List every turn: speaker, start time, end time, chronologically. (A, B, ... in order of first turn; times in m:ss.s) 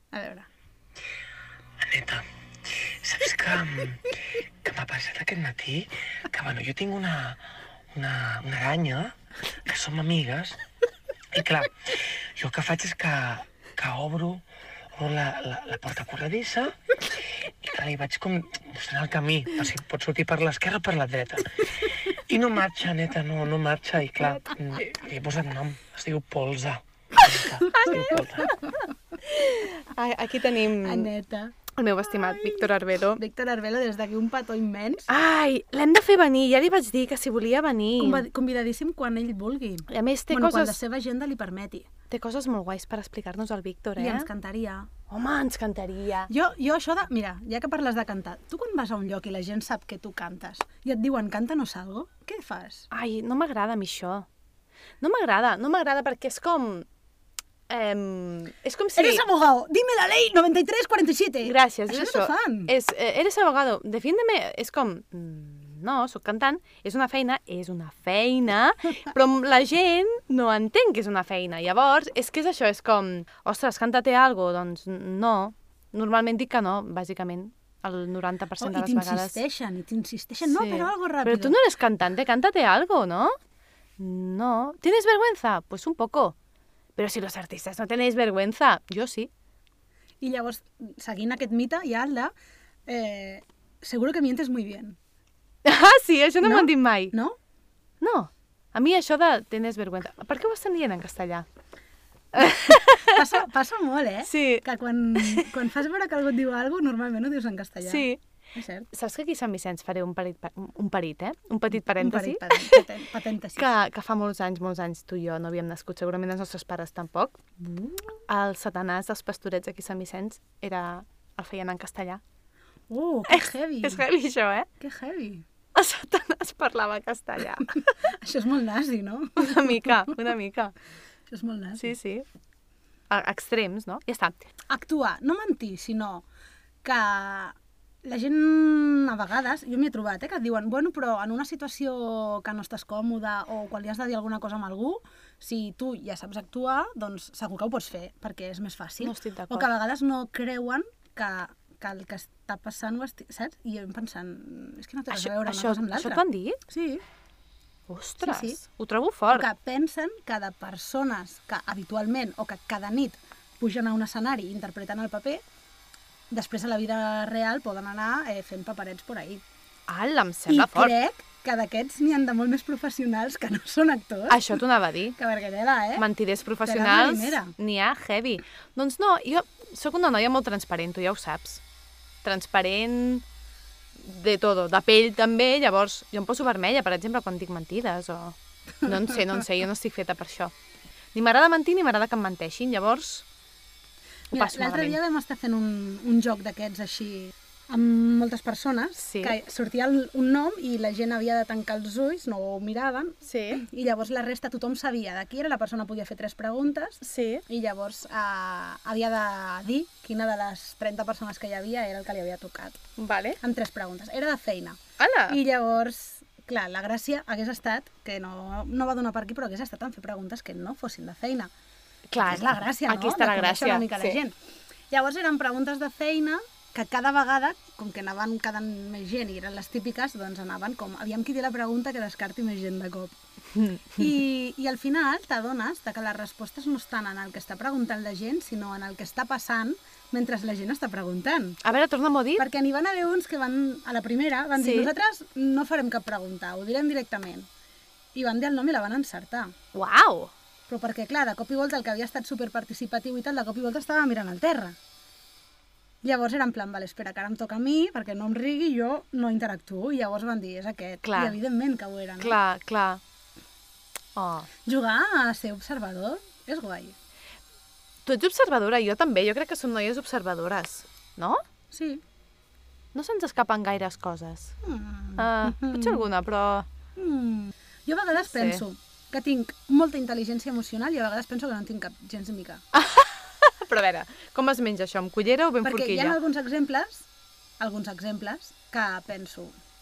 0:00.1-0:00.5 A
0:01.8-0:10.6 B
0:11.3-0:14.4 B
0:15.0-0:28.5 B
0:27.7-0:28.8 A
0:27.7-0:28.2 C
0:29.2-0:31.1 C
0:30.8-0:35.1 A
0:31.8-0:33.2 C
0:35.1-0:38.2 C
0:38.0-0:41.9 A
0:39.9-0:40.8 C
0:42.1-0:44.3 C
0:44.0-0:44.9 A
0:45.1-0:46.3 C
0:46.3-0:52.9 A
0:52.9-0:54.2 C
0:55.0-0:56.8 C
0:57.7-0:59.2 C
0:59.0-1:02.7 A
1:01.4-1:19.4 C
1:18.6-1:21.6 A
1:20.4-1:23.4 C
1:24.0-1:26.3 C
1:27.0-1:29.3 C
1:30.2-1:32.3 A
1:32.9-1:35.0 A
1:35.6-1:37.1 C
1:36.4-1:37.4 A
1:38.0-1:41.4 C
1:42.3-1:43.2 C
1:43.0-1:48.9 A
1:44.2-1:44.6 C
1:45.2-1:45.5 C
1:47.8-1:48.2 C
1:48.9-1:52.8 C
1:51.7-1:53.7 A
1:53.6-1:57.4 C
1:57.6-1:58.2 A
1:58.3-2:02.2 C
2:02.9-2:04.0 A
2:03.3-2:04.7 C
2:04.8-2:05.4 A
2:05.7-2:07.9 C
2:08.0-2:10.1 A
2:09.4-2:10.7 C
2:11.3-2:11.9 A
2:11.8-2:12.2 C
2:13.1-2:14.4 C
2:14.7-2:16.2 A
2:16.8-2:37.0 A
2:29.0-2:29.7 C
2:35.1-2:36.6 C
2:37.9-2:39.5 C
2:38.2-2:38.6 A
2:39.3-2:45.4 A
2:46.3-2:49.4 A
2:49.9-2:50.9 C
2:50.5-2:54.6 A
2:54.3-2:55.2 C
2:55.2-2:56.0 A
2:56.0-3:01.6 C
2:56.6-2:57.5 A
3:02.2-3:03.2 C
3:04.0-3:10.5 C
3:11.1-3:13.2 C
3:14.3-3:15.0 C
3:14.3-3:32.8 A
3:19.0-3:19.4 C
3:23.2-3:23.6 C
3:27.0-3:27.4 C
3:33.0-3:33.4 C
3:33.4-3:41.5 A
3:35.0-3:35.4 C
3:42.1-3:44.2 C
3:42.2-3:44.4 A
3:44.9-3:53.1 A
3:54.0-4:01.6 A
4:01.6-4:02.4 C
4:02.4-4:07.5 A
4:04.6-4:04.9 C
4:08.1-4:09.5 A
4:09.7-4:10.3 C
4:10.7-4:14.8 A
4:16.0-4:22.4 A
4:21.0-4:21.4 C
4:22.2-4:23.0 C
4:24.2-4:24.5 C
4:24.6-4:27.0 A
4:28.0-4:31.4 C
4:31.7-4:32.0 A
4:32.9-4:34.5 C
4:34.6-4:36.0 A
4:35.2-4:36.7 C
4:37.0-4:42.6 A
4:38.3-4:38.6 C
4:42.7-4:46.2 C
4:45.6-4:47.1 A
4:47.6-4:49.6 A